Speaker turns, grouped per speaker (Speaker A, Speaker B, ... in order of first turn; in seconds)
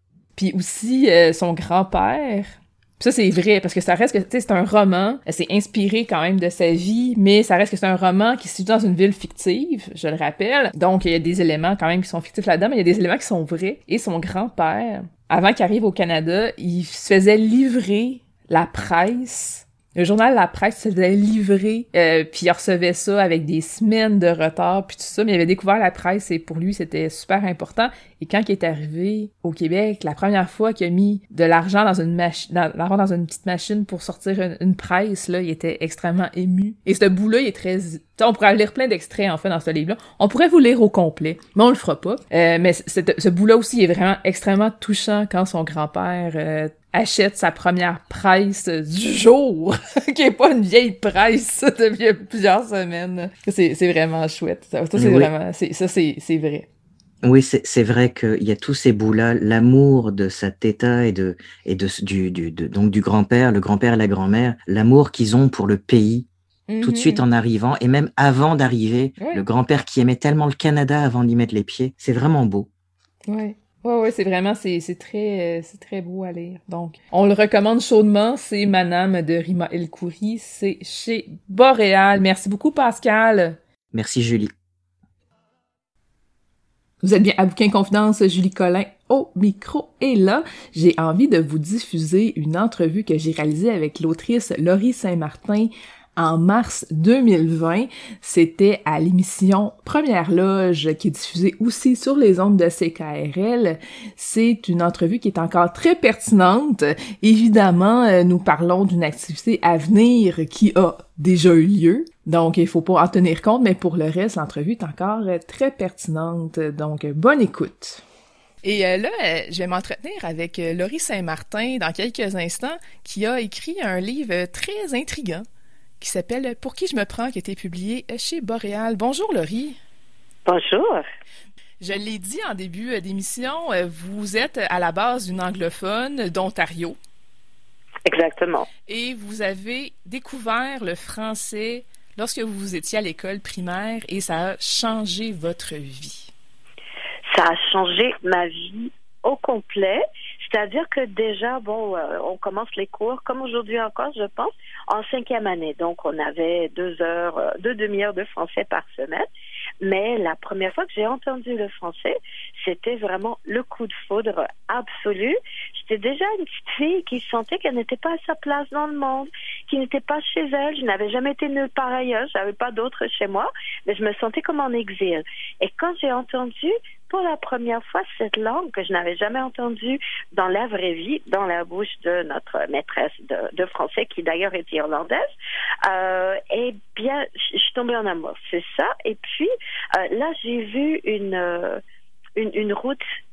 Speaker A: 0.4-56.7, 66.7-67.2, 73.3-83.6, 87.0-118.0, 118.6-125.5, 126.0-129.8, 131.8-137.0, 138.9-146.3
Speaker B: 55.0-55.3, 57.2-66.3, 66.8-72.7, 83.9-84.5
Speaker C: 130.5-131.1, 138.1-138.7, 147.3-159.3, 159.8-185.3, 185.8-191.8, 192.4-193.0